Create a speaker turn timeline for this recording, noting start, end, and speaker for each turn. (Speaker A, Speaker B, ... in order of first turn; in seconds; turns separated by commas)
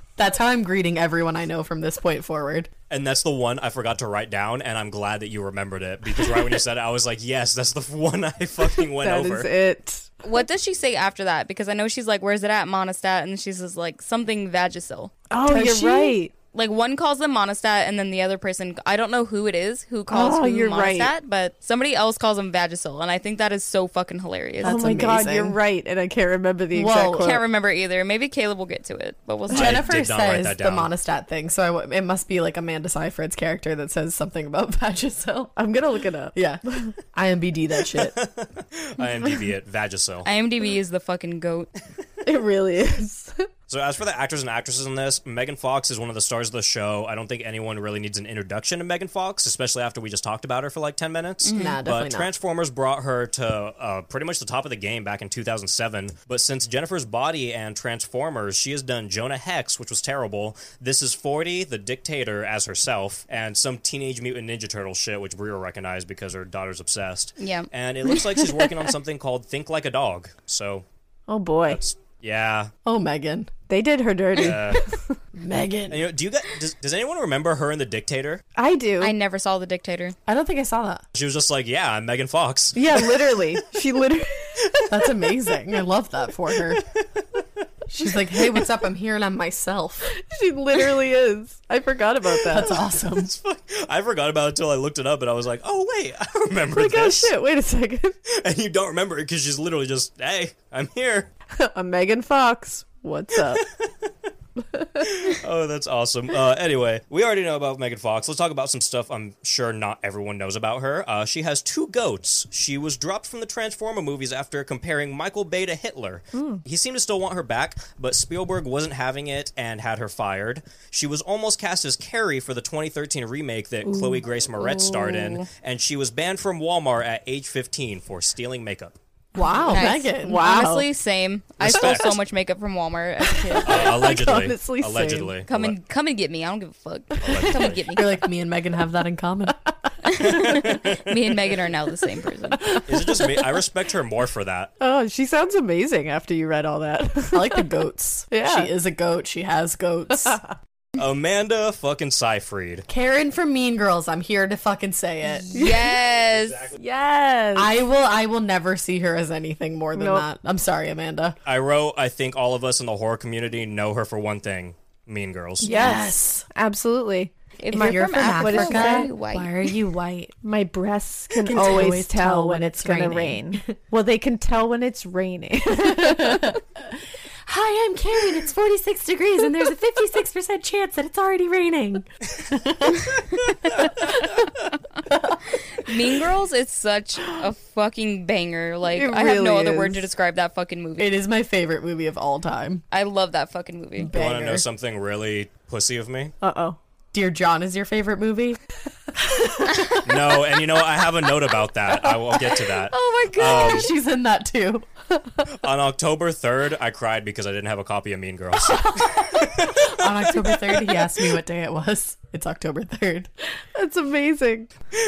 Speaker A: 0.2-2.7, Speaker B: 2.9-9.5, Speaker C: 8.9-10.1, Speaker D: 10.2-15.1, Speaker C: 15.3-16.3, Speaker A: 15.5-16.2, Speaker D: 16.5-24.8, Speaker C: 20.1-21.1, Speaker A: 24.6-25.6, Speaker C: 24.6-27.4, Speaker A: 26.7-27.4, Speaker D: 27.2-29.9, Speaker A: 29.5-35.5, Speaker B: 29.5-30.9, Speaker C: 35.5-36.9, Speaker A: 36.3-38.1, Speaker B: 38.0-40.3, Speaker D: 40.2-41.7, Speaker C: 42.2-43.4, Speaker B: 43.7-70.8, Speaker D: 51.4-51.8, Speaker A: 51.5-52.3, Speaker D: 67.4-67.7, Speaker C: 71.3-71.8, Speaker B: 71.7-72.7, Speaker A: 72.8-73.5, Speaker C: 73.7-75.1, Speaker B: 74.3-74.8, Speaker A: 75.3-76.1, Speaker B: 75.9-78.4, Speaker C: 78.6-79.1, Speaker D: 79.0-80.2, Speaker A: 80.2-81.0, Speaker B: 81.1-83.6, Speaker C: 82.7-84.9, Speaker A: 84.9-86.8, Speaker A: 87.9-90.1, Speaker C: 90.1-92.7, Speaker A: 92.4-93.3, Speaker B: 93.0-97.3, Speaker C: 96.7-98.1, Speaker B: 98.3-101.3, Speaker C: 101.6-103.6, Speaker B: 103.5-103.9, Speaker B: 105.0-129.0, Speaker C: 116.3-116.6, Speaker D: 124.5-125.4, Speaker A: 129.3-130.8, Speaker C: 129.4-130.8, Speaker D: 129.7-133.9, Speaker B: 131.6-132.2, Speaker C: 133.5-135.3, Speaker B: 133.6-135.8, Speaker D: 135.5-138.2, Speaker B: 137.2-137.8, Speaker A: 137.9-139.6, Speaker D: 140.1-142.8, Speaker B: 140.2-141.4, Speaker C: 142.6-143.3, Speaker B: 142.8-144.7, Speaker C: 144.8-147.7, Speaker A: 147.3-150.4, Speaker C: 148.3-148.7, Speaker B: 151.0-152.9, Speaker A: 152.9-155.5, Speaker D: 155.5-156.7, Speaker C: 155.5-155.9, Speaker B: 156.1-156.8, Speaker C: 156.8-157.7, Speaker A: 157.5-161.3, Speaker C: 159.9-160.3, Speaker B: 161.4-165.7, Speaker A: 165.6-166.4, Speaker C: 165.6-169.1, Speaker D: 167.6-169.6, Speaker A: 167.7-170.3, Speaker C: 170.4-176.6, Speaker A: 171.3-173.8, Speaker A: 175.8-183.2, Speaker A: 185.1-185.3, Speaker D: 185.7-191.2, Speaker C: 188.9-190.0, Speaker A: 191.0-192.8, Speaker D: 192.9-194.1, Speaker A: 194.0-194.6, Speaker B: 194.1-196.3, Speaker C: 196.4-196.8, Speaker A: 197.1-198.6, Speaker B: 200.0-203.9, Speaker D: 202.9-203.8, Speaker A: 203.4-204.8, Speaker B: 205.4-211.1, Speaker A: 209.6-213.3, Speaker C: 213.7-214.7